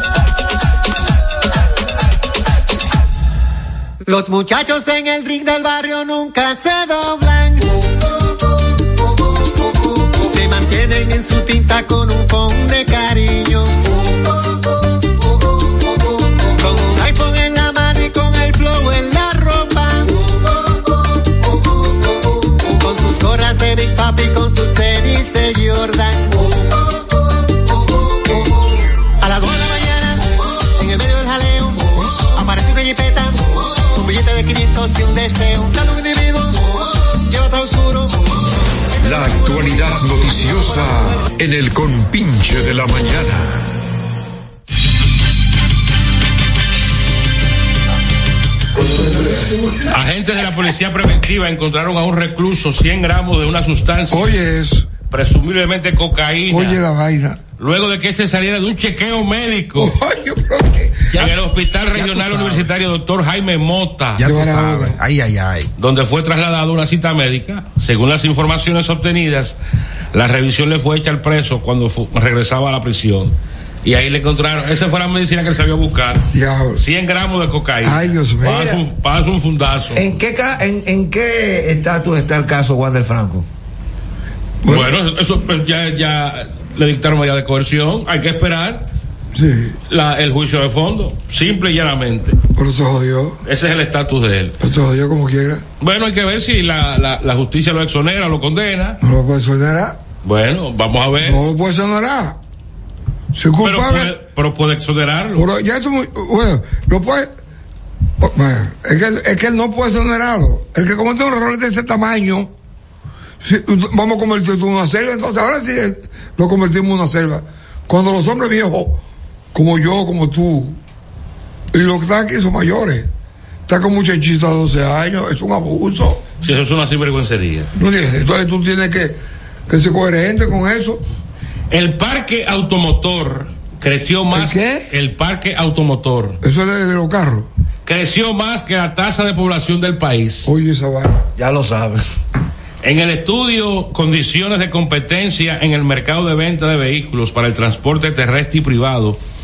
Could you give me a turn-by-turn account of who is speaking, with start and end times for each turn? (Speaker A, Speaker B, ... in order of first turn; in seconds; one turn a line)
Speaker A: 4.0-7.8
Speaker A: 10.2-13.8
Speaker A: 16.6-20.2
Speaker A: 22.6-26.6
Speaker A: 29.2-38.5
Speaker B: 39.0-43.7
Speaker C: 48.8-50.0
Speaker D: 49.9-54.4
Speaker C: 54.1-54.9
Speaker D: 55.1-56.8
Speaker C: 56.5-57.4
Speaker D: 57.6-59.9
Speaker C: 59.8-61.1
Speaker D: 61.1-64.2
Speaker E: 61.9-62.7
Speaker E: 64.2-65.7
Speaker C: 64.2-65.0
Speaker D: 65.8-69.6
Speaker D: 70.1-80.0
Speaker C: 76.3-76.8
Speaker C: 77.8-78.7
Speaker F: 80.0-83.5
Speaker C: 84.6-85.0
Speaker D: 84.7-88.9
Speaker C: 89.3-89.8
Speaker D: 89.9-92.4
Speaker C: 92.5-93.4
Speaker D: 93.5-94.6
Speaker C: 94.6-95.7
Speaker D: 95.8-99.0
Speaker C: 99.0-100.0
Speaker D: 100.2-101.4
Speaker C: 101.2-102.4
Speaker C: 103.3-104.2
Speaker D: 103.6-105.5
Speaker C: 105.3-107.3
Speaker C: 108.2-112.5
Speaker C: 113.4-119.0
Speaker C: 119.5-120.8
Speaker C: 121.7-123.1
Speaker C: 123.7-126.2
Speaker D: 126.4-127.7
Speaker C: 127.8-131.0
Speaker D: 131.7-136.4
Speaker C: 134.3-134.9
Speaker C: 136.4-137.5
Speaker D: 137.9-140.5
Speaker C: 140.4-141.3
Speaker F: 141.4-142.0
Speaker D: 142.8-149.2